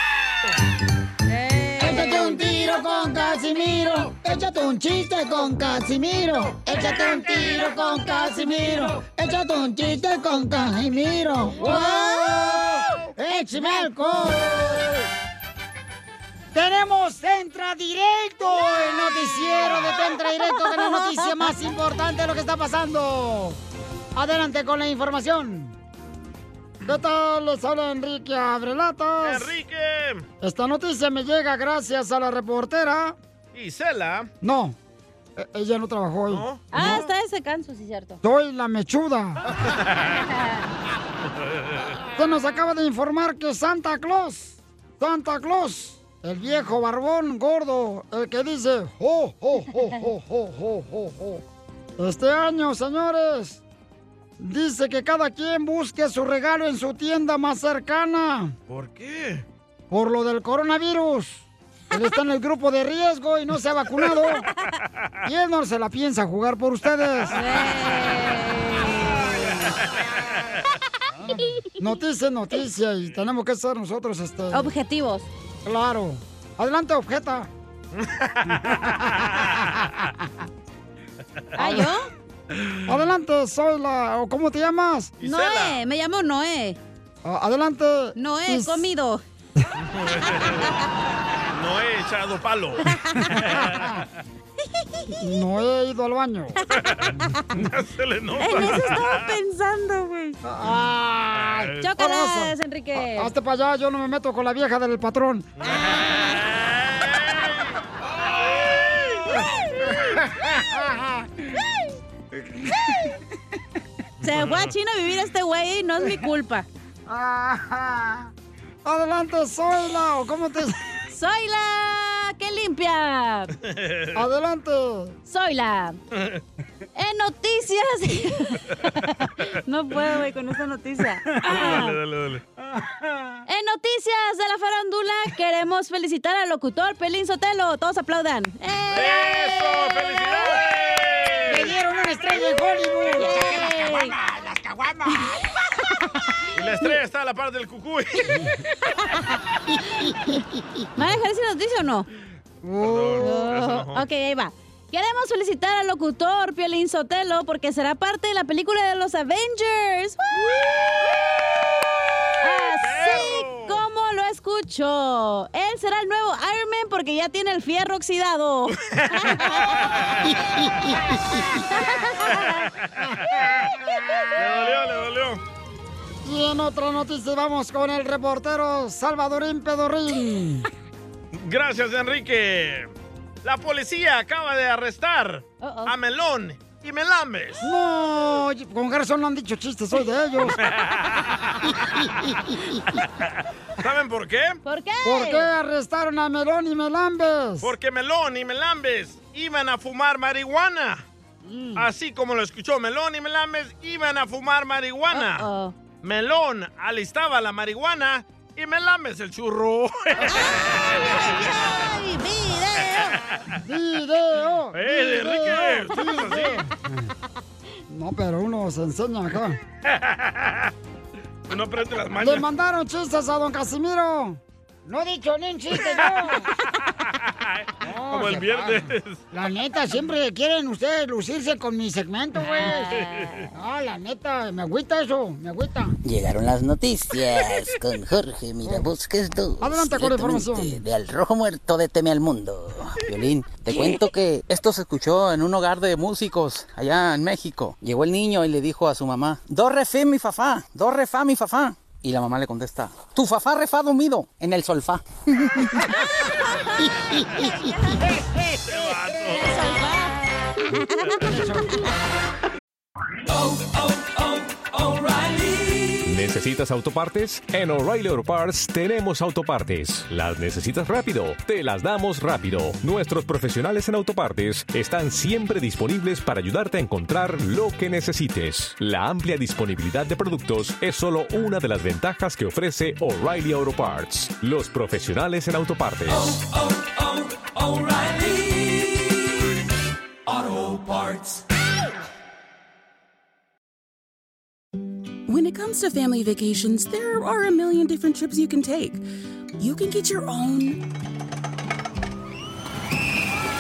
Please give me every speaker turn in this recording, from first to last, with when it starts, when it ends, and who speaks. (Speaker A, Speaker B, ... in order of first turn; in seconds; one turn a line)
Speaker A: 1.3-2.6
Speaker B: 1.8-15.1
Speaker A: 7.7-8.7
Speaker A: 11.6-12.7
Speaker A: 13.3-13.9
Speaker B: 16.5-23.6
Speaker A: 20.5-21.1
Speaker B: 24.1-25.8
Speaker B: 26.9-29.5
Speaker C: 29.2-30.2
Speaker B: 30.4-33.2
Speaker C: 33.5-34.3
Speaker B: 34.4-34.8
Speaker B: 35.4-37.1
Speaker C: 36.3-36.7
Speaker A: 36.7-38.2
Speaker B: 38.2-39.4
Speaker C: 39.8-40.2
Speaker B: 42.1-51.4
Speaker B: 52.0-53.6
Speaker B: 54.4-58.5
Speaker C: 58.7-59.5
Speaker B: 59.9-64.5
Speaker B: 65.3-67.4
Speaker A: 67.3-69.5
Speaker B: 71.2-74.7
Speaker A: 74.5-75.3
Speaker B: 75.7-77.5
Speaker C: 78.0-79.7
Speaker B: 78.6-80.0
Speaker A: 81.6-82.1
Speaker B: 82.9-85.1
Speaker C: 85.2-85.8
Speaker A: 85.2-86.8
Speaker B: 87.2-88.9
Speaker A: 88.2-89.2
Speaker C: 89.9-90.8
Speaker C: 91.5-93.9
Speaker A: 93.0-93.3
Speaker B: 93.5-94.0
Speaker B: 95.2-96.6
Speaker C: 96.8-99.3
Speaker A: 98.4-100.4
Speaker B: 100.4-105.5
Speaker C: 101.3-101.8
Speaker A: 101.8-103.3
Speaker C: 105.6-107.7
Speaker C: 108.7-109.5
Speaker B: 110.0-111.2
Speaker B: 112.3-113.2
Speaker A: 114.2-116.7
Speaker C: 114.2-114.7
Speaker B: 117.1-118.3
Speaker B: 118.8-120.8
Speaker A: 121.1-123.5
Speaker C: 123.6-124.2
Speaker B: 124.2-125.2
Speaker A: 125.3-126.0
Speaker C: 126.1-126.4
Speaker A: 127.0-132.0
Speaker C: 131.4-132.4
Speaker B: 132.8-133.3
Speaker A: 133.5-140.5
Speaker C: 138.9-141.8
Speaker B: 141.5-145.3
Speaker A: 143.2-144.2
Speaker C: 146.5-148.5
Speaker A: 148.9-149.4
Speaker A: 151.0-152.1
Speaker B: 152.6-153.5
Speaker C: 152.8-154.0
Speaker A: 153.2-160.4
Speaker A: 162.4-169.6
Speaker C: 162.8-163.8
Speaker C: 168.9-170.2
Speaker A: 171.7-172.6
Speaker C: 172.3-173.7
Speaker B: 173.8-174.6
Speaker C: 174.3-175.4
Speaker B: 176.2-180.7
Speaker C: 181.3-182.9
Speaker C: 183.4-187.7
Speaker A: 185.6-185.9
Speaker B: 187.6-190.6
Speaker C: 190.4-191.5
Speaker C: 193.8-194.6
Speaker A: 194.7-195.5
Speaker B: 195.0-197.7
Speaker C: 197.6-201.1
Speaker B: 201.4-201.9
Speaker C: 201.8-205.5
Speaker A: 205.1-205.7
Speaker C: 206.0-211.2
Speaker A: 210.3-213.2
Speaker C: 213.0-213.4
Speaker B: 213.6-217.1
Speaker C: 214.7-216.7
Speaker B: 217.9-219.6
Speaker C: 219.8-220.7
Speaker C: 221.5-222.5
Speaker B: 222.2-226.5
Speaker C: 225.8-226.3
Speaker C: 227.0-229.2
Speaker B: 227.8-232.9
Speaker A: 232.5-233.4
Speaker C: 233.0-233.4
Speaker B: 233.5-236.0
Speaker D: 236.1-236.4
Speaker D: 238.1-255.0
Speaker B: 238.6-238.9
Speaker B: 239.6-240.8
Speaker C: 258.6-259.8
Speaker A: 259.3-261.3
Speaker B: 261.3-261.8
Speaker E: 266.0-286.4
Speaker F: 295.3-299.0
Speaker F: 299.6-300.9